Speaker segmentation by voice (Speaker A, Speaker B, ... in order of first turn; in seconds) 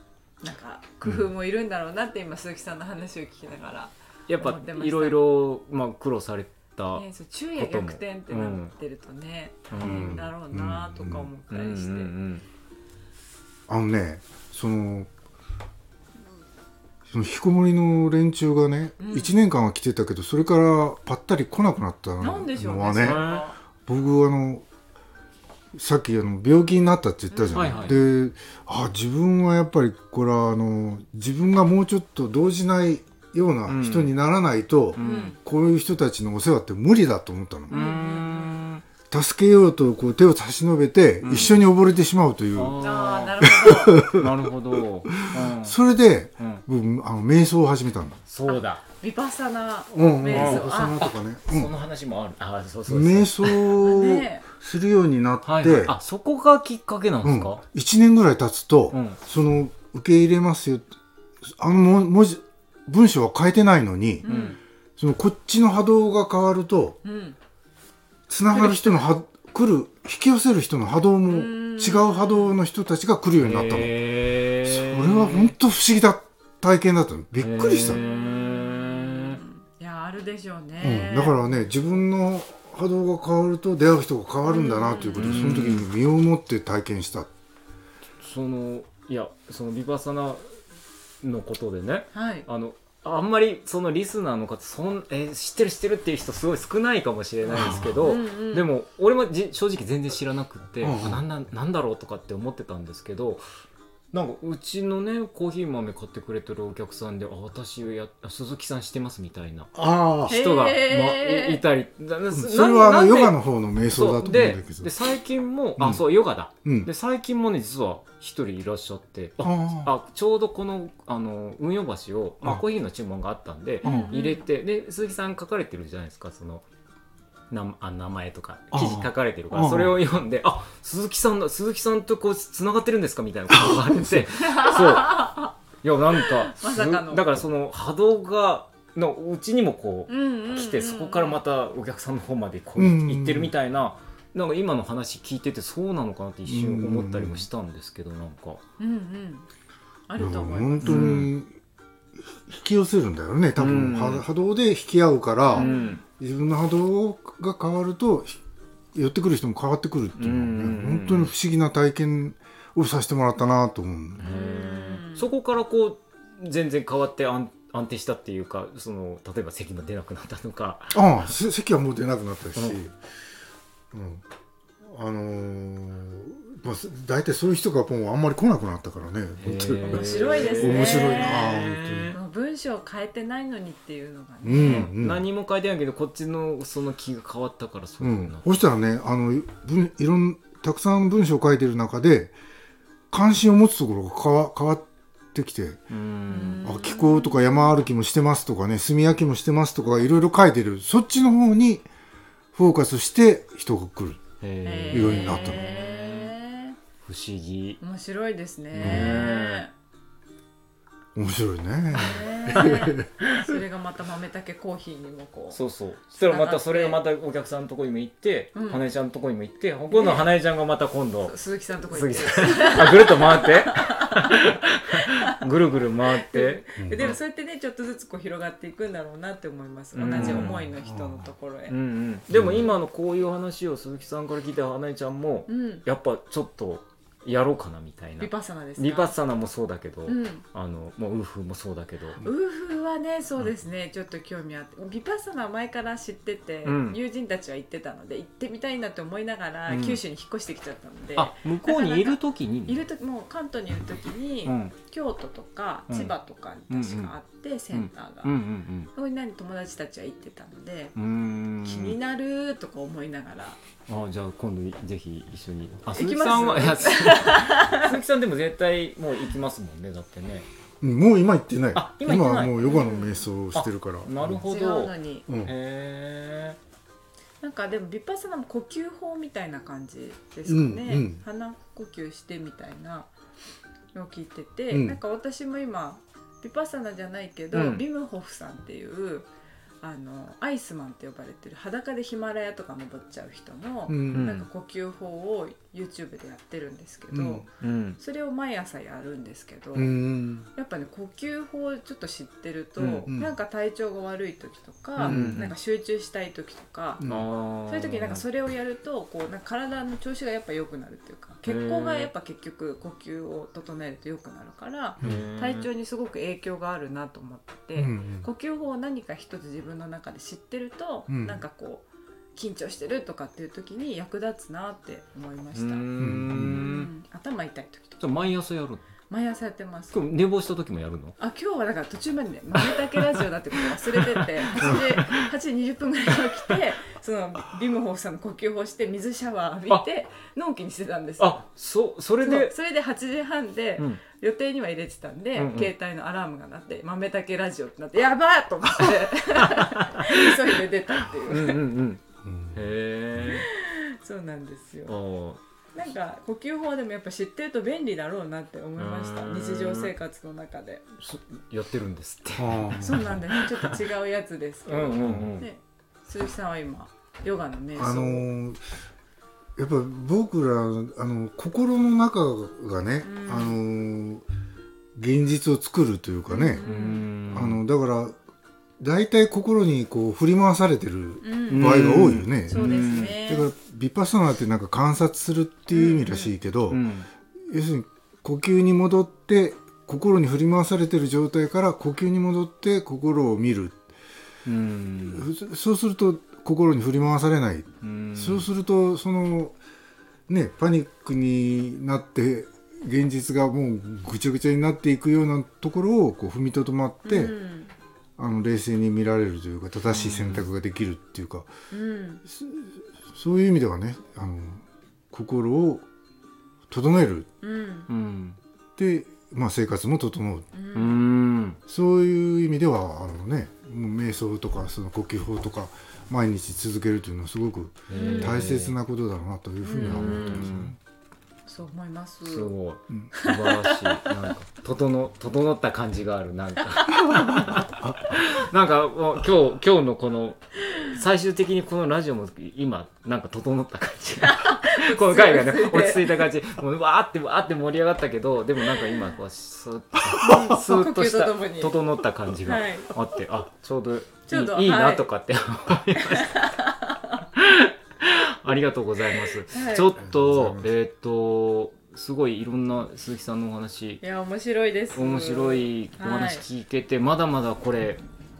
Speaker A: 0.4-5.2, 6.9-12.1, 19.0-19.3, 22.2-23.5, 27.3-28.1, 35.0-35.4, 37.7-38.6, 42.8-44.0, 48.5-51.0, 53.8-54.4, 64.2-64.6, 67.0-67.4, 71.3-72.6, 77.8-81.5, 84.5-85.5, 92.1-92.5, 98.0-98.7, 110.3-111.6, 123.8-124.4, 134.4-135.5, 136.2-137.2, 140.1-141.4, 148.8-149.4, 150.1-151.2, 155.5-156.0, 164.2-165.3, 179.8-181.5, 182.1-184.9, 196.3-197.7, 204.6-206.8, 207.8-209.7, 211.9-215.6, 216.3-217.0, 218.5-218.8, 219.9-220.3, 221.2-225.4, 226.1-231.7, 235.5-235.8, 238.2-239.1, 240.1-240.4, 242.2-258.3, 258.9-260.9, 261.6-263.6, 265.9-267.9, 272.6-273.3, 274.4-275.2, 277.4-283.1, 283.9-289.3, 289.8-297.4, 298.0-300.0, 300.5-307.0, 307.7-325.8, 326.4-328.3, 329.1-330.0, 331.2-341.4, 342.2-351.6, 353.2-354.9, 355.7-360.8, 362.8-368.3, 373.0-373.6, 376.3-377.1, 381.2-381.8, 382.5-383.5, 385.7-386.3, 407.0-407.7, 411.7-412.2, 417.4-417.9, 420.5-421.0, 427.9-428.4, 429.6-430.5, 431.5-432.5, 433.2-434.1, 444.2-446.2, 450.0-451.8, 452.4-452.9, 454.3-455.0, 456.0-457.2, 459.4-459.9, 464.0-466.4
Speaker B: 4.3-8.7, 9.7-10.2, 11.5-12.4, 23.0-23.4, 27.5-28.0, 33.7-34.1, 35.0-35.3, 37.7-38.8, 41.2-41.6, 42.5-45.8, 48.3-48.8, 50.3-53.8, 55.4-57.6, 58.9-59.2, 64.3-64.6, 68.5-69.1, 73.4-75.5, 77.4-79.4, 85.1-85.9, 88.2-90.4, 91.2-103.4, 104.1-113.4, 113.9-126.6, 127.5-148.6, 150.8-151.3, 153.6-154.2, 155.5-156.0, 160.2-161.3, 164.2-171.1, 179.4-182.2, 184.5-188.4, 195.9-196.7, 204.4-206.3, 207.0-207.8, 208.8-209.6, 215.5-227.2, 229.9-230.6, 231.7-242.2, 246.6-247.0, 249.7-250.0, 251.2-252.8, 254.4-254.7, 256.7-257.1, 257.7-258.9, 260.9-262.0, 263.9-270.5, 271.7-272.9, 273.5-276.6, 287.5-287.8, 294.1-294.5, 297.6-298.0, 302.8-303.1, 305.0-305.5, 307.0-308.2, 311.4-312.1, 315.0-315.7, 325.5-326.9, 328.0-328.8, 329.9-331.2, 332.6-335.3, 341.2-342.5, 345.4-345.7, 349.4-350.6, 351.3-352.0, 352.5-353.5, 354.9-355.4, 358.8-359.9, 361.0-363.8, 364.7-365.5, 376.6-377.6, 381.5-383.2, 386.7-387.1, 394.4-395.3, 397.8-398.5, 409.9-410.4, 417.9-418.4, 420.7-421.6, 427.9-428.8, 429.8-430.7, 432.3-456.4, 457.3-464.0, 464.9-468.0
Speaker C: 9.8-11.3, 13.7-15.1, 17.1-23.3, 23.9-24.6, 25.7-37.8, 39.1-42.9, 43.4-48.2, 49.9-51.7, 52.9-55.9, 57.2-64.2, 65.0-67.0, 68.3-73.9, 74.6-78.0, 80.8-87.3, 97.5-98.0, 100.8-101.2, 109.8-110.3, 112.3-114.9, 115.8-116.0, 116.6-116.9, 119.4-119.9, 123.8-124.2, 128.7-130.0, 133.5-134.2, 136.7-136.9, 142.8-143.5, 146.5-147.5, 150.2-151.5, 152.2-155.7, 156.2-158.4, 158.9-164.2, 170.9-173.0, 173.9-174.2, 174.8-182.1, 184.4-185.2, 188.0-192.3, 193.1-195.8, 196.6-201.8, 202.5-204.2, 204.9-205.6, 208.8-209.2, 211.1-213.1, 226.8-227.1, 230.1-231.2, 232.3-232.7, 270.8-274.4, 275.3-275.5, 280.5-281.2, 284.7-285.0, 293.9-294.3, 297.1-297.4, 299.7-300.5, 305.1-305.4, 307.0-307.3, 315.0-315.3, 317.8-318.3, 321.1-321.4, 326.0-326.6, 352.2-352.6, 353.1-353.4, 362.4-363.1, 367.8-368.6, 369.6-374.2, 374.9-376.6, 377.3-378.1, 378.8-386.8, 387.4-393.8, 395.1-399.6, 400.3-407.3, 408.2-411.5, 412.3-415.8, 416.7-417.3, 418.8-420.5, 421.7-430.8, 437.1-438.0, 460.0-460.7